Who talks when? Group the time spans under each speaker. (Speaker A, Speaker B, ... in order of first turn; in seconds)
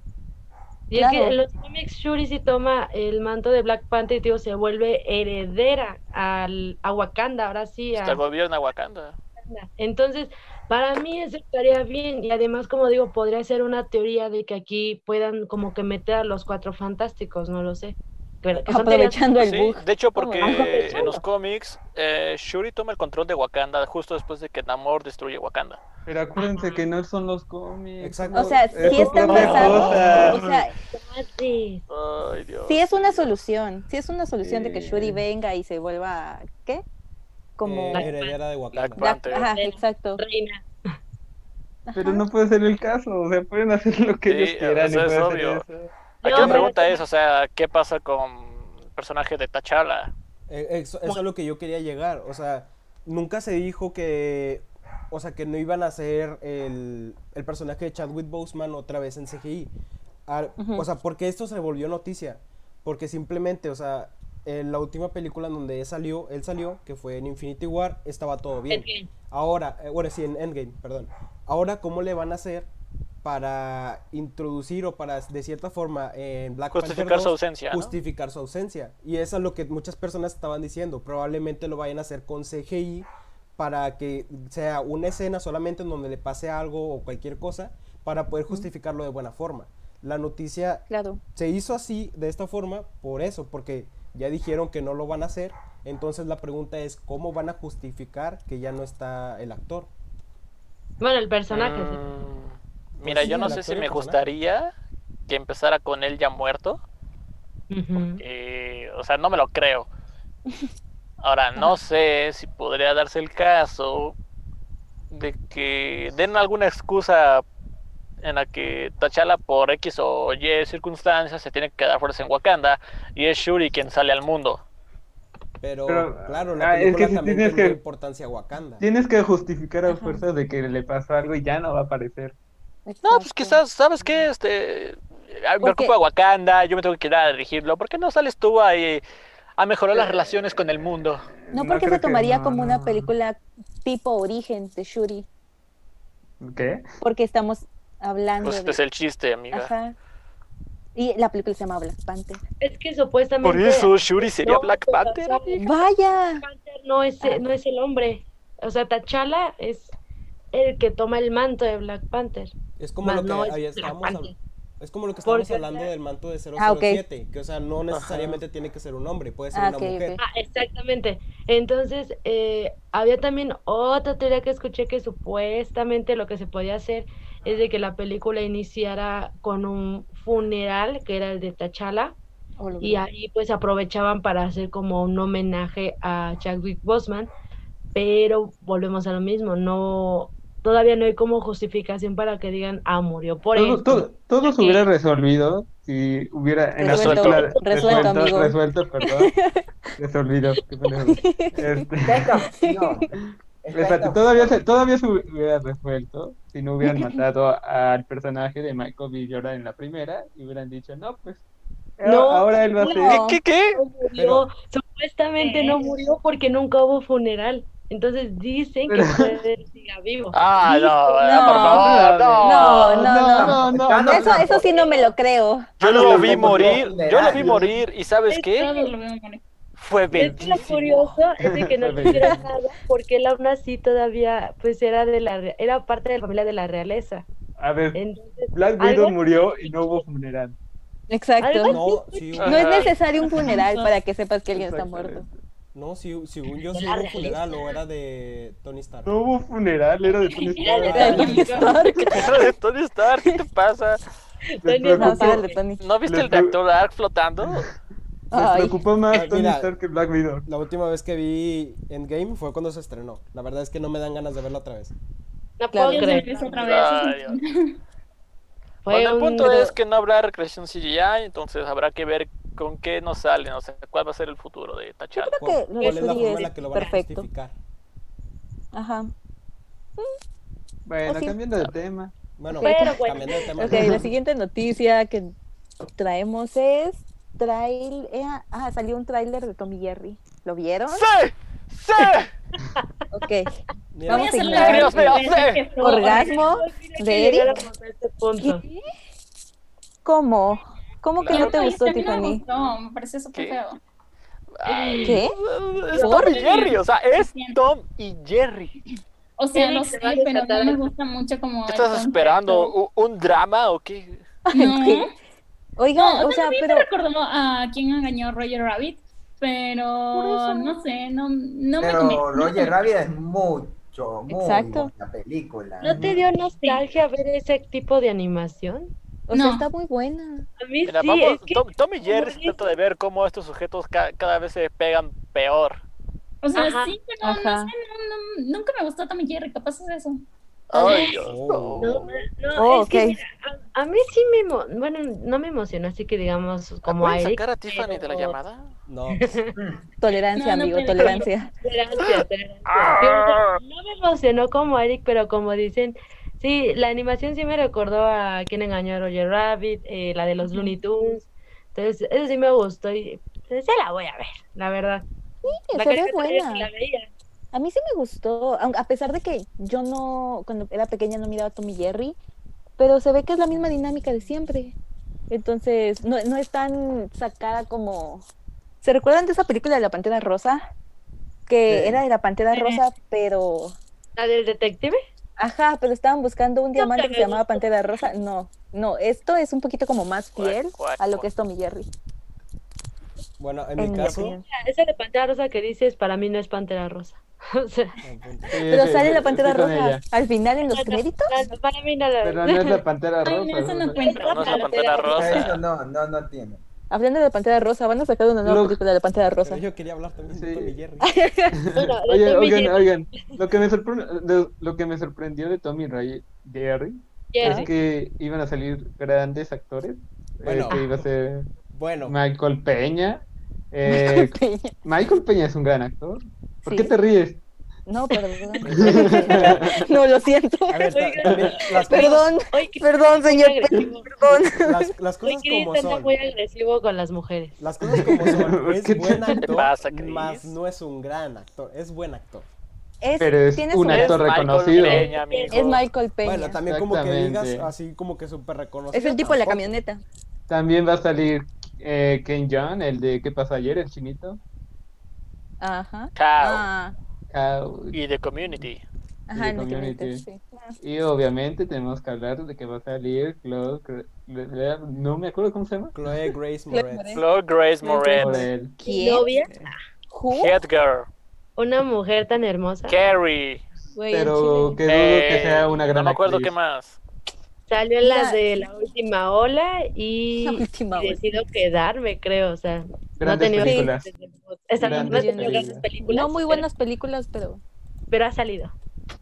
Speaker A: 0.9-8.2, 9.4-19.2, 20.4-21.2, 26.4-26.9, 28.8-31.8, 37.9-38.4, 39.2-40.6, 46.2-47.0, 68.7-69.1, 101.0-102.0, 107.7-108.2, 152.6-155.8, 156.4-159.9, 160.5-164.3, 165.2-165.9, 170.2-182.2, 182.8-187.3, 187.9-194.7, 197.4-198.2, 212.0-213.1, 213.7-220.3, 221.1-221.7, 224.6-225.1, 228.3-228.9, 230.1-237.3, 237.9-240.0, 241.4-242.9, 246.6-247.8, 250.4-252.0, 254.6-255.6, 265.6-266.4, 268.8-269.7, 275.8-277.0, 282.5-284.0, 295.8-298.6, 304.6-305.2, 305.9-306.5, 309.5-310.8, 325.8-328.9, 330.6-332.8, 336.5-336.9, 340.8-341.1, 341.8-348.4, 349.1-349.5, 351.0-365.1, 365.7-367.1, 384.1-385.0, 386.7-388.0, 394.0-398.0, 400.7-402.8, 403.9-405.4, 411.7-413.4, 417.3-417.7, 430.9-434.4, 435.2-437.6, 444.6-445.8, 468.8-469.7, 471.6-473.0, 477.7-486.7, 488.1-488.7
Speaker B: 0.9-1.4, 18.6-21.2, 28.3-30.7, 32.7-36.8, 37.6-38.1, 39.0-40.2, 41.9-42.2, 60.6-60.9, 90.9-91.2, 129.9-130.2, 132.8-133.6, 135.6-135.9, 141.5-145.3, 147.0-148.8, 149.5-149.9, 150.9-152.4, 155.6-156.4, 166.6-167.0, 169.5-170.2, 182.6-183.0, 196.8-199.7, 201.1-201.9, 202.5-203.0, 206.8-207.2, 212.8-213.4, 220.7-221.9, 222.4-225.7, 241.1-241.8, 242.4-245.2, 250.9-252.4, 254.9-255.8, 258.3-258.8, 265.7-266.1, 275.1-277.3, 278.7-279.1, 281.1-281.4, 282.6-285.3, 285.9-291.1, 293.1-293.5, 294.1-295.2, 295.8-297.6, 298.4-298.9, 300.0-302.4, 305.0-305.3, 306.0-306.4, 314.4-315.1, 315.8-316.9, 320.1-320.8, 324.3-324.9, 329.3-330.5, 337.2-337.7, 342.5-343.2, 350.0-351.5, 365.4-366.7, 367.5-372.1, 372.8-374.7, 375.3-378.2, 378.8-380.6, 381.5-383.8, 385.4-391.9, 393.8-394.4, 398.6-401.5, 406.9-409.6, 411.0-411.6, 417.4-417.7, 423.8-424.7, 426.6-426.9, 427.9-430.9, 431.8-434.9, 443.0-444.2, 445.5-446.6, 448.9-450.0, 455.6-456.9, 459.3-460.8, 466.7-467.2, 467.8-469.3, 470.1-470.5, 473.9-474.8, 478.0-478.4, 480.4-481.4, 483.6-483.9, 484.8-487.6
Speaker C: 7.9-9.2, 19.4-25.8, 31.9-33.3, 38.7-39.5, 44.2-45.6, 46.2-50.1, 76.7-77.9, 101.5-104.7, 105.3-106.8, 108.0-109.9, 111.2-114.2, 115.1-117.4, 118.2-124.6, 133.0-139.0, 139.6-141.3, 148.4-149.7, 153.4-155.5, 167.9-168.4, 196.8-197.5, 213.0-213.8, 220.3-223.1, 225.8-228.7, 229.8-231.0, 242.4-242.9, 252.1-254.0, 255.8-257.7, 266.3-267.4, 268.9-275.4, 290.9-292.3, 294.5-295.6, 301.2-301.6, 303.3-303.6, 304.5-308.8, 311.7-314.2, 330.8-335.8, 340.7-342.1, 346.8-348.7, 352.7-353.6, 390.4-391.3, 404.2-405.6, 439.4-440.5, 443.9-445.8, 456.1-456.6, 457.9-458.8, 467.1-468.5, 470.3-471.1, 472.9-473.6, 474.9-477.0
Speaker D: 26.1-30.6, 34.4-35.2, 41.9-45.9, 125.9-127.8, 128.8-132.3, 139.9-143.1, 146.4-146.8, 193.5-199.3, 200.0-202.4, 203.2-211.4, 212.0-213.2, 218.9-219.4, 221.5-224.5, 226.0-227.5, 230.2-232.5, 237.6-240.6, 244.5-245.3, 249.1-252.1, 254.6-255.4, 256.0-256.6, 257.4-257.7, 258.4-260.5, 280.9-282.1, 325.8-326.2, 398.5-400.0, 402.2-404.1, 408.4-408.8, 410.3-410.7, 411.5-421.5, 422.1-427.4, 428.6-429.8, 437.9-439.4, 443.2-445.1, 446.6-447.7, 450.5-454.4, 457.3-458.0, 459.3-460.2, 460.8-465.9, 468.2-468.8, 474.1-476.5, 483.2-484.1, 484.8-485.8
Speaker E: 28.0-30.2, 37.6-39.1, 50.5-59.7, 60.3-72.7, 73.2-99.9, 103.0-104.3, 125.6-128.8, 162.8-170.2, 214.2-214.5, 241.7-242.7, 245.7-249.1, 250.8-251.5, 258.3-259.7, 260.4-264.9, 275.4-277.5, 282.4-284.1, 293.9-294.4, 341.2-342.1, 348.9-349.2, 381.7-382.0, 393.4-394.4, 398.0-398.5, 409.4-411.1, 420.4-421.1, 421.7-422.2, 428.7-429.6, 430.7-432.2, 434.6-436.1, 437.6-442.5, 446.2-449.7, 465.9-467.2
Speaker F: 202.0-203.1, 203.6-204.6, 223.2-224.7, 225.8-227.7, 321.8-326.1, 405.1-406.6
Speaker G: 215.4-215.8, 228.6-229.4, 243.4-243.9, 250.6-251.5, 265.9-267.8, 294.1-296.4, 301.3-303.8, 306.0-307.6, 309.4-312.7, 314.5-315.1, 316.0-322.8, 329.3-329.6, 336.4-340.2, 350.3-351.3, 382.5-382.8, 403.2-405.4